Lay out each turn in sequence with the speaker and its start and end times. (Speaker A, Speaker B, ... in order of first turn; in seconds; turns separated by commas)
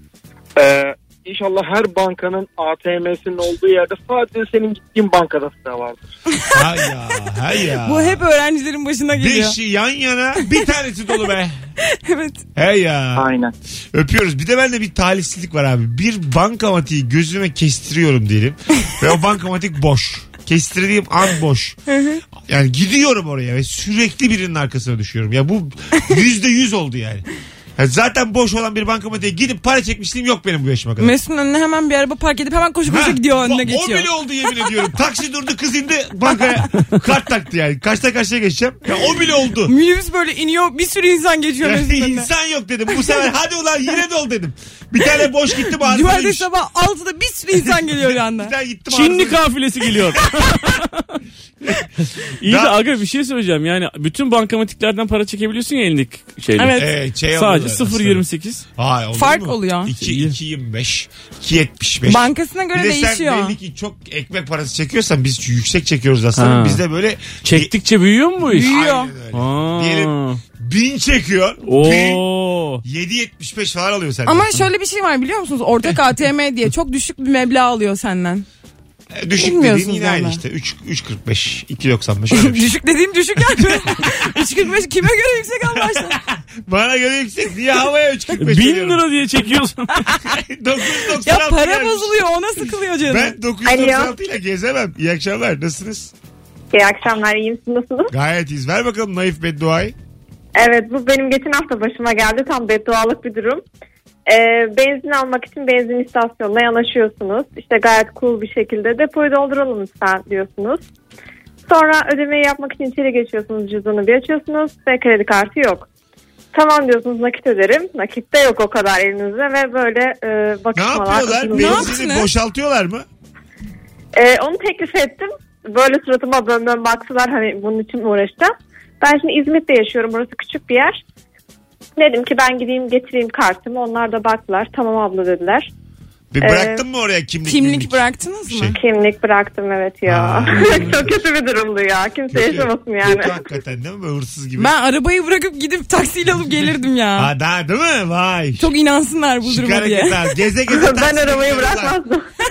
Speaker A: 0.6-6.0, Speaker B: 6.3-6.7, Speaker C: 6.5-8.2, Speaker B: 7.8-9.6, Speaker C: 9.1-11.6, Speaker B: 11.8-12.4, Speaker C: 12.5-13.3, Speaker A: 13.2-13.5, Speaker C: 13.9-21.8, Speaker B: 21.9-22.2, Speaker C: 22.4-27.2, Speaker C: 27.8-31.1, Speaker B: 31.0-34.1, Speaker C: 32.9-39.7, Speaker B: 39.6-42.3, Speaker C: 41.6-46.5, Speaker B: 45.7-48.5, Speaker C: 47.5-49.4, Speaker D: 48.9-51.1, Speaker C: 51.6-51.9, Speaker D: 52.4-56.8, Speaker C: 52.4-52.8, Speaker B: 56.6-56.9, Speaker C: 56.7-58.2, Speaker D: 57.3-58.6, Speaker C: 58.8-67.7, Speaker B: 59.1-59.9, Speaker D: 60.0-60.4, Speaker B: 62.0-63.5, Speaker D: 66.3-66.8, Speaker D: 67.4-68.7, Speaker C: 68.4-72.2, Speaker B: 68.5-69.1, Speaker D: 69.3-70.4, Speaker D: 71.7-72.8, Speaker C: 72.8-74.5, Speaker B: 74.2-78.4, Speaker C: 79.1-82.7, Speaker B: 79.4-80.4, Speaker B: 82.3-86.2, Speaker C: 83.4-84.5, Speaker C: 85.7-89.0, Speaker D: 88.4-90.1, Speaker C: 90.2-92.2, Speaker B: 91.2-93.3, Speaker C: 93.0-96.1, Speaker E: 93.7-94.1, Speaker E: 96.7-98.1, Speaker C: 98.1-99.9, Speaker E: 100.5-103.6, Speaker E: 104.3-110.8, Speaker E: 111.7-115.9, Speaker E: 116.5-121.9, Speaker C: 120.7-123.0, Speaker B: 121.5-122.3, Speaker E: 124.1-131.0, Speaker E: 132.0-135.7, Speaker C: 136.3-138.8, Speaker E: 136.4-136.8, Speaker B: 137.4-138.8, Speaker E: 138.7-143.4, Speaker C: 140.1-141.2, Speaker C: 142.3-144.7, Speaker B: 144.6-147.3, Speaker C: 147.2-148.7, Speaker B: 148.6-150.3, Speaker C: 149.4-152.0, Speaker E: 150.7-152.2